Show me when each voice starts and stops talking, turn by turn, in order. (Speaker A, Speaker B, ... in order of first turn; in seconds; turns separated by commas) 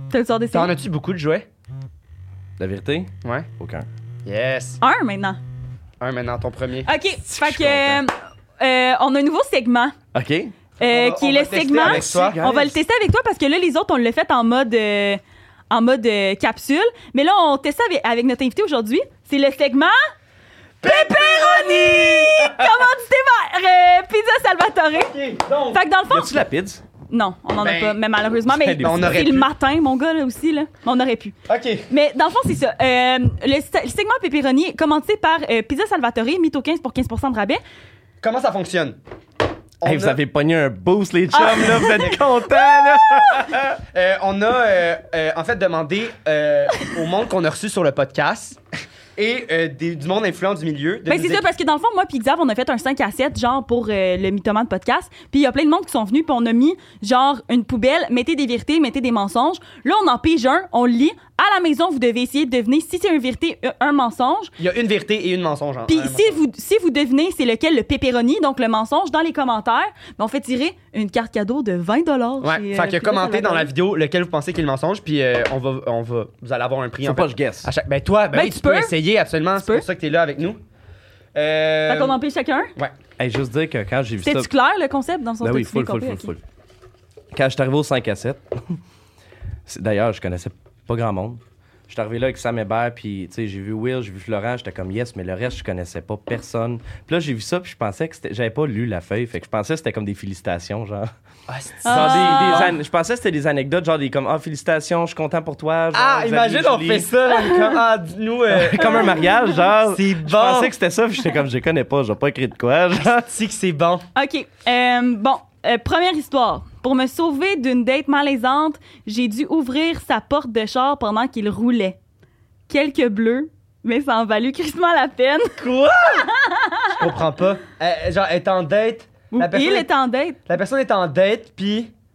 Speaker A: 0.1-0.7, Speaker B: 0.5-1.5, Speaker C: 2.6-3.9, Speaker B: 3.2-3.5, Speaker B: 4.2-4.8, Speaker A: 4.8-5.4, Speaker B: 6.0-6.9, Speaker A: 6.8-9.9, Speaker C: 7.2-8.0, Speaker C: 10.1-10.6, Speaker A: 10.8-19.9, Speaker B: 10.8-12.4, Speaker C: 11.8-12.8, Speaker B: 20.8-22.7, Speaker A: 20.8-25.1, Speaker B: 24.9-25.8, Speaker A: 25.7-26.4, Speaker C: 26.1-26.8, Speaker A: 27.1-31.4, Speaker B: 27.6-28.0, Speaker C: 28.5-29.3, Speaker B: 28.8-29.5, Speaker B: 31.5-31.9, Speaker A: 31.9-37.6, Speaker B: 38.2-39.0, Speaker B: 39.8-40.2, Speaker C: 39.8-43.7, Speaker A: 41.3-42.2, Speaker A: 42.7-43.5, Speaker B: 43.5-48.6, Speaker B: 49.1-51.4, Speaker A: 51.1-64.5, Speaker B: 64.6-66.4, Speaker A: 65.9-73.7, Speaker B: 72.4-80.6, Speaker C: 77.0-77.7, Speaker A: 78.3-79.0, Speaker A: 79.5-79.8, Speaker B: 81.3-82.2, Speaker A: 81.9-82.7, Speaker C: 83.2-84.5, Speaker A: 84.2-86.3, Speaker C: 85.4-86.4, Speaker C: 87.3-88.8, Speaker C: 89.7-101.1, Speaker B: 101.5-102.7, Speaker A: 101.8-102.7, Speaker C: 101.8-107.1, Speaker B: 105.9-109.2, Speaker A: 107.3-107.8, Speaker C: 108.5-113.3, Speaker A: 108.8-109.6, Speaker B: 109.8-110.7, Speaker B: 113.0-114.0, Speaker A: 114.1-122.0, Speaker A: 122.7-127.1, Speaker B: 125.6-126.3, Speaker B: 126.9-129.9, Speaker A: 129.3-130.4, Speaker B: 130.5-131.9